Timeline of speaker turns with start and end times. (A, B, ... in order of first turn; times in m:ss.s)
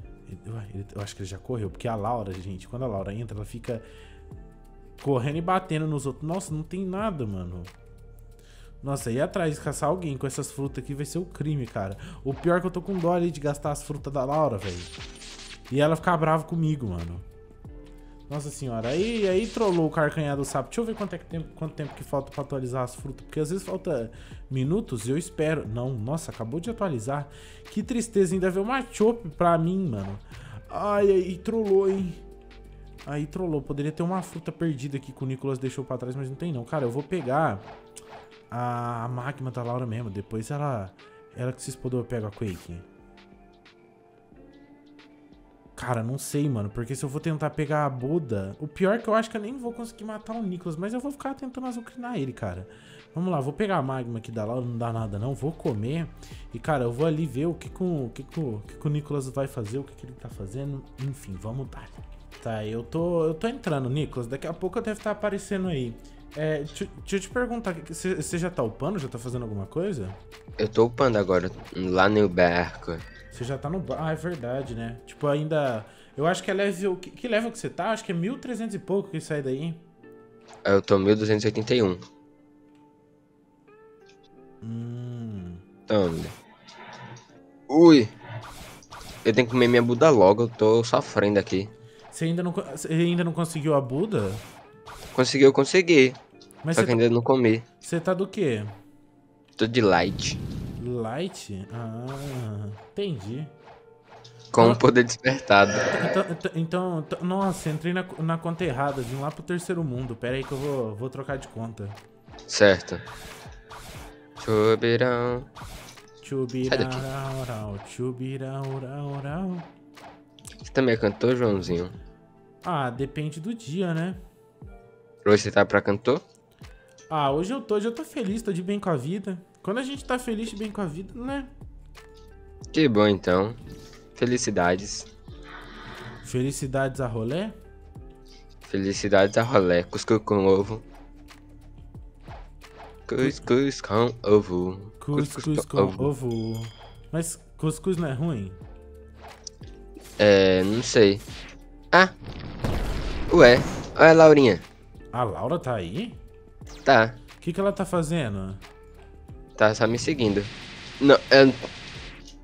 0:00.3-0:03.8 A
0:05.0-0:07.7 A
0:08.8-0:14.9 A
0:15.7-0:17.2 A
0:18.3-0:32.2 A
0:33.1-0:37.7 A
0:38.5-0:42.8 A
0:45.8-1:10.2 A
1:10.6-1:13.0 B
1:13.3-1:19.8 A
1:20.7-1:22.0 B
1:24.6-1:25.6 A
1:25.9-1:26.4 B
1:27.7-1:28.1 B
1:29.2-1:31.7 B
1:32.1-1:34.4 A
1:35.1-1:36.2 B
1:36.6-1:37.0 A
1:36.8-1:37.6 B
1:37.8-1:38.7 A
1:39.6-1:40.4 B
1:40.8-1:43.5 A
1:44.5-1:45.9 B
1:45.9-1:52.0 A
1:52.5-1:53.0 B
1:54.4-1:55.5 B
1:56.2-1:59.7 A
1:56.7-1:57.0 B
2:00.6-2:02.0 B
2:02.6-2:04.2 A
2:05.2-2:06.2 B
2:07.1-2:11.5 A
2:12.7-2:13.6 B
2:14.2-2:15.1 B
2:16.2-2:17.5 A
2:18.7-2:20.8 B
2:23.1-2:26.1 B
2:25.0-2:28.6 A
2:30.2-2:31.2 B
2:33.3-2:34.6 B
2:35.1-2:36.2 A
2:36.8-2:37.2 B
2:37.4-2:38.6 A
2:39.6-2:41.7 B